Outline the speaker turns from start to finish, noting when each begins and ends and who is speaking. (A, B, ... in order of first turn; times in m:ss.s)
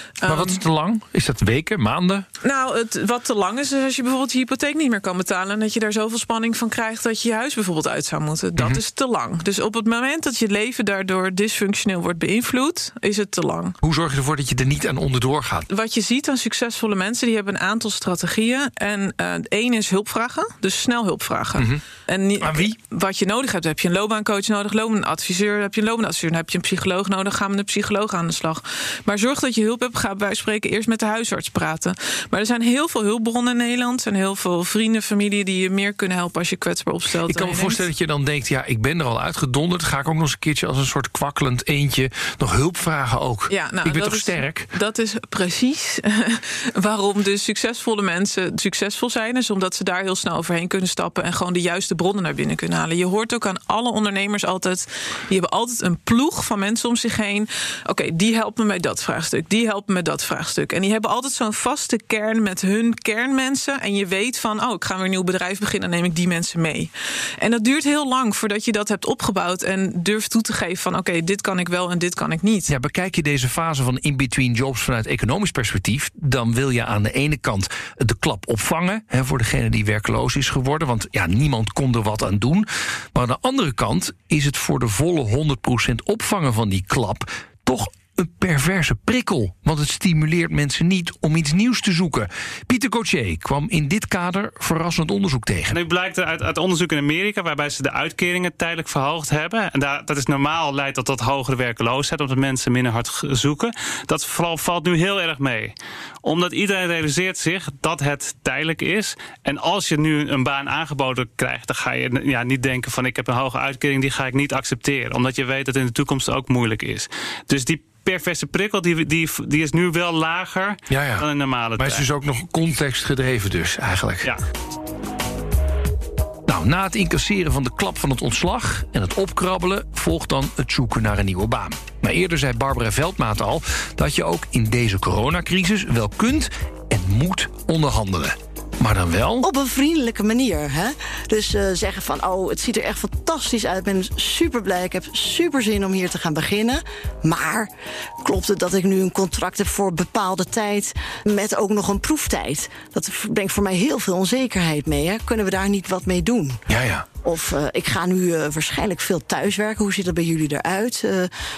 0:00.2-0:00.6 A
0:00.2-0:02.3 B
0:02.4-0:13.8 A
0:08.6-0:08.8 B
0:13.8-0:15.7 B
0:15.7-0:37.8 A
0:21.6-0:21.8 B
0:22.4-0:22.7 B
0:37.2-0:44.7 B
0:43.5-1:12.7 A
1:12.7-1:35.8 B
1:35.7-2:02.1 C
2:00.9-2:04.3 B
2:06.5-2:19.5 B
2:19.4-2:27.7 D
2:28.2-2:36.6 D
2:36.7-2:37.1 B
2:37.2-2:41.3 D